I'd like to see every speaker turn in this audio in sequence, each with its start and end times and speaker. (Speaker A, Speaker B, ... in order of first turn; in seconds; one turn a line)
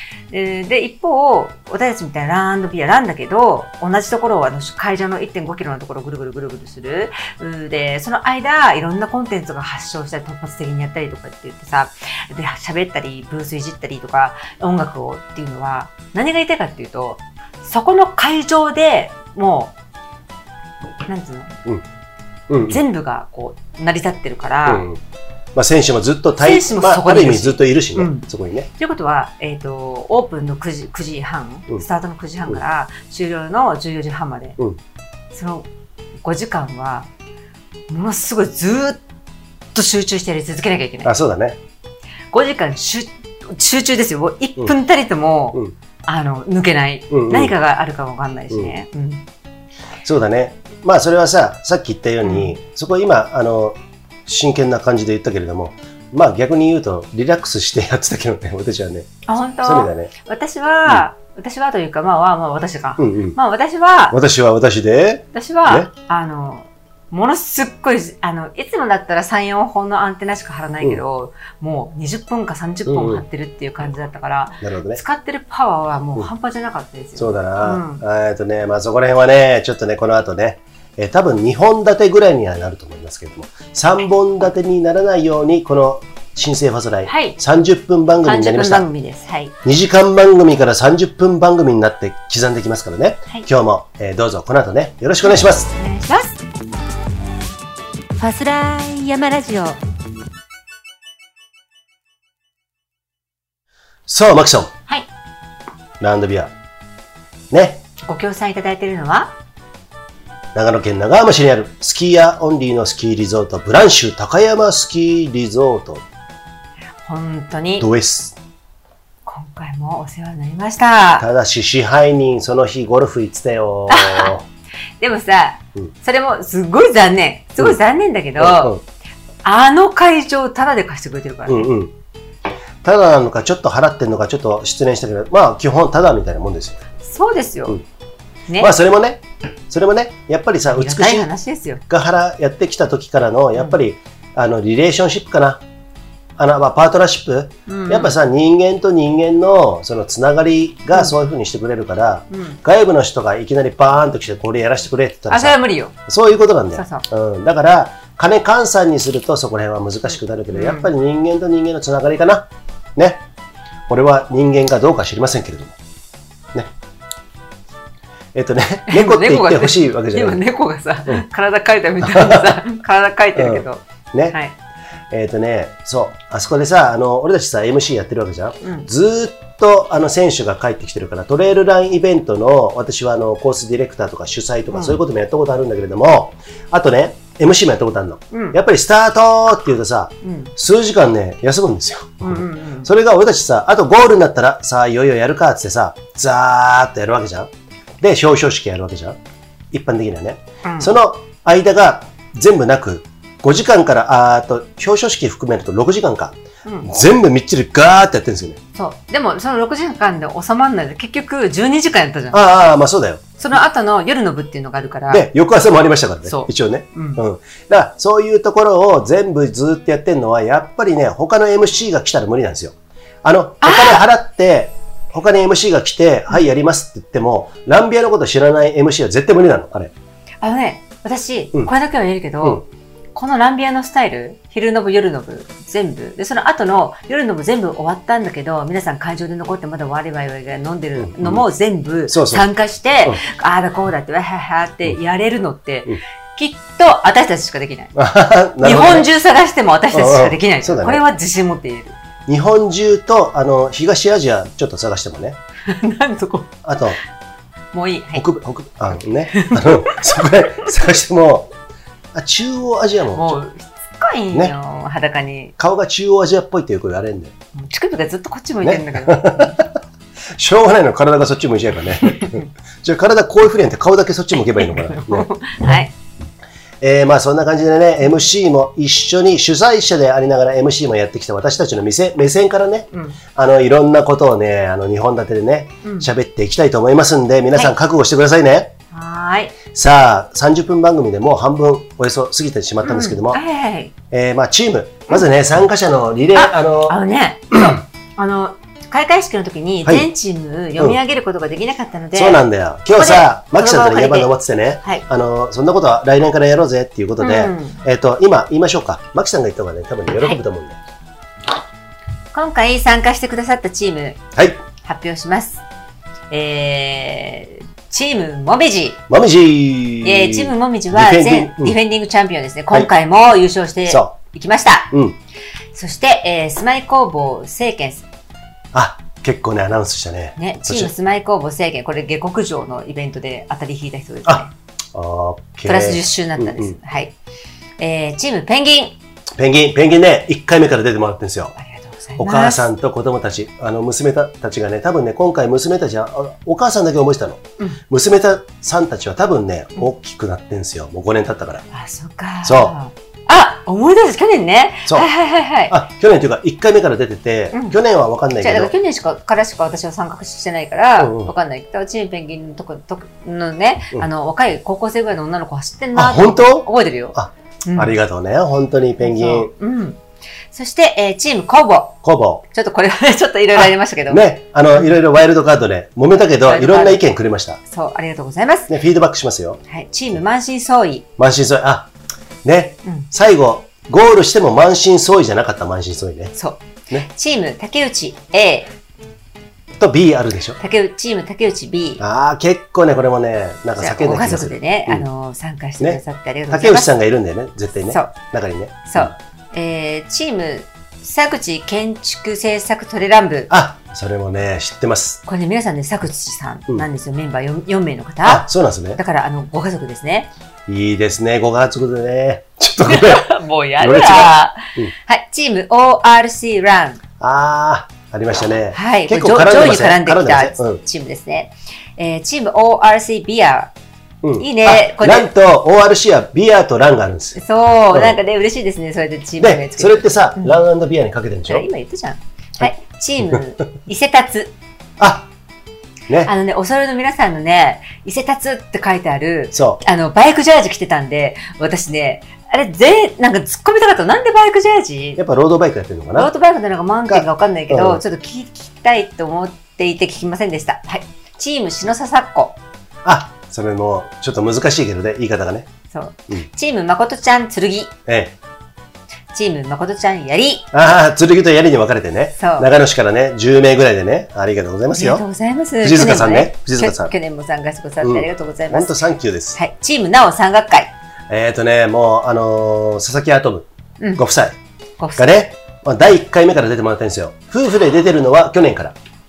Speaker A: 0.3-19.7
Speaker A: 21.1-21.6
Speaker B: 22.5-22.8
Speaker A: 22.6-24.9
Speaker B: 24.7-25.0
Speaker B: 25.6-28.7
Speaker A: 26.4-34.6
Speaker A: 35.3-35.7
Speaker A: 36.2-37.1
Speaker A: 37.9-39.0
Speaker A: 39.7-41.1
Speaker B: 41.0-41.6
Speaker A: 42.3-49.3
Speaker B: 47.1-47.5
Speaker B: 50.0-60.1
Speaker A: 52.2-52.6
Speaker A: 59.3-64.2
Speaker B: 63.0-63.4
Speaker B: 64.1-65.9
Speaker A: 65.3-78.0
Speaker B: 72.9-73.2
Speaker B: 74.6-75.0
Speaker B: 77.2-88.9
Speaker A: 87.1-87.4
Speaker A: 88.2-89.5
Speaker B: 89.6-95.7
Speaker A: 95.2-96.4
Speaker A: 98.2-99.8
Speaker B: 104.1-104.7
Speaker B: 106.0-106.5
Speaker B: 107.5-107.8
Speaker A: 108.0-109.3
Speaker B: 110.5-116.0
Speaker A: 117.0-117.9
Speaker B: 117.8-118.4
Speaker A: 119.2-121.3
Speaker B: 121.2-124.5
Speaker A: 123.9-124.3
Speaker A: 125.0-128.8
Speaker B: 128.4-128.8
Speaker A: 129.4-131.7
Speaker B: 131.5-131.9
Speaker B: 132.8-136.8
Speaker A: 137.0-137.8
Speaker B: 138.6-141.3
Speaker A: 140.7-141.8
Speaker B: 141.9-145.6
Speaker B: 146.4-163.2
Speaker A: 147.7-148.2
Speaker A: 152.3-152.6
Speaker A: 155.3-156.0
Speaker A: 156.8-157.1
Speaker A: 160.5-160.9
Speaker B: 163.9-165.8
Speaker B: 168.3-170.4
Speaker A: 168.9-174.6
Speaker B: 172.0-172.6
Speaker B: 173.4-174.4
Speaker B: 175.1-197.5
Speaker A: 178.6-178.9
Speaker A: 184.7-185.0
Speaker A: 188.3-188.6
Speaker A: 190.2-190.5
Speaker A: 192.2-192.9
Speaker B: 198.0-199.2
Speaker B: 199.7-208.6
Speaker A: 200.6-200.9
Speaker A: 206.7-206.9
Speaker A: 208.8-212.4
Speaker B: 212.3-213.2
Speaker A: 213.4-215.3
Speaker B: 215.1-229.9
Speaker A: 216.3-217.2
Speaker A: 223.6-224.1
Speaker A: 230.4-247.9
Speaker B: 241.0-241.4
Speaker B: 242.1-242.4
Speaker B: 247.9-249.1
Speaker A: 248.6-252.0
Speaker B: 249.9-251.0
Speaker B: 252.3-255.4
Speaker A: 255.6-256.6
Speaker B: 256.6-257.0
Speaker A: 257.7-258.2
Speaker B: 258.1-261.5
Speaker A: 259.3-260.5
Speaker B: 262.1-263.4
Speaker A: 263.1-265.6
Speaker B: 265.6-267.3
Speaker A: 267.5-269.6
Speaker B: 268.6-269.8
Speaker B: 270.4-275.3
Speaker A: 274.5-275.9
Speaker B: 276.8-288.7
Speaker A: 282.9-283.2
Speaker A: 285.8-286.1
Speaker A: 288.9-289.6
Speaker B: 289.7-293.4
Speaker A: 292.8-293.9
Speaker B: 294.1-297.0
Speaker A: 296.3-304.3
Speaker B: 302.1-310.8
Speaker A: 307.2-307.8
Speaker A: 310.1-310.4
Speaker A: 312.3-314.2
Speaker B: 314.4-314.6
Speaker A: 314.8-315.6
Speaker A: 316.3-319.0
Speaker B: 319.1-321.8
Speaker A: 320.0-324.9
Speaker B: 323.9-324.1
Speaker B: 324.9-325.2
Speaker A: 325.7-328.1
Speaker B: 328.7-330.9
Speaker A: 330.4-334.5
Speaker B: 334.3-336.8
Speaker A: 335.7-337.2
Speaker A: 337.8-339.0
Speaker B: 339.4-341.6
Speaker A: 341.6-342.6
Speaker B: 342.2-351.6
Speaker A: 351.7-355.8
Speaker B: 352.4-352.8
Speaker B: 355.7-358.7
Speaker A: 357.5-357.8
Speaker A: 358.4-367.9
Speaker B: 361.0-361.3
Speaker B: 365.9-369.5
Speaker A: 369.0-370.0
Speaker A: 370.5-374.3
Speaker B: 372.0-372.4
Speaker B: 373.6-377.6
Speaker A: 376.4-377.0
Speaker A: 377.7-378.7
Speaker B: 378.7-379.6
Speaker A: 379.7-381.1
Speaker B: 381.2-381.9
Speaker B: 382.4-386.4
Speaker A: 386.4-388.7
Speaker B: 389.8-390.6
Speaker A: 390.6-392.0
Speaker B: 392.0-395.1
Speaker A: 393.8-396.9
Speaker B: 395.8-399.1
Speaker A: 397.9-398.1
Speaker A: 398.9-403.5
Speaker B: 403.5-405.2
Speaker A: 405.3-410.3
Speaker B: 408.2-409.0
Speaker B: 410.7-414.9
Speaker A: 412.9-417.0
Speaker B: 417.2-420.8
Speaker A: 418.7-423.7
Speaker B: 424.2-427.4
Speaker A: 424.4-425.3
Speaker A: 427.4-430.6
Speaker B: 429.4-431.7
Speaker A: 431.5-434.5
Speaker B: 435.0-435.3
Speaker A: 436.2-445.2
Speaker B: 439.5-439.8
Speaker B: 445.2-446.3
Speaker A: 446.1-452.6
Speaker B: 447.1-448.0
Speaker B: 453.1-455.7
Speaker A: 455.9-457.9
Speaker B: 458.1-458.4
Speaker A: 459.3-460.7
Speaker B: 460.7-465.2
Speaker A: 462.4-462.7
Speaker A: 464.9-469.0
Speaker B: 465.8-467.1
Speaker B: 468.0-469.6
Speaker A: 469.6-470.9
Speaker B: 471.3-474.6
Speaker A: 475.0-475.3
Speaker B: 475.2-478.9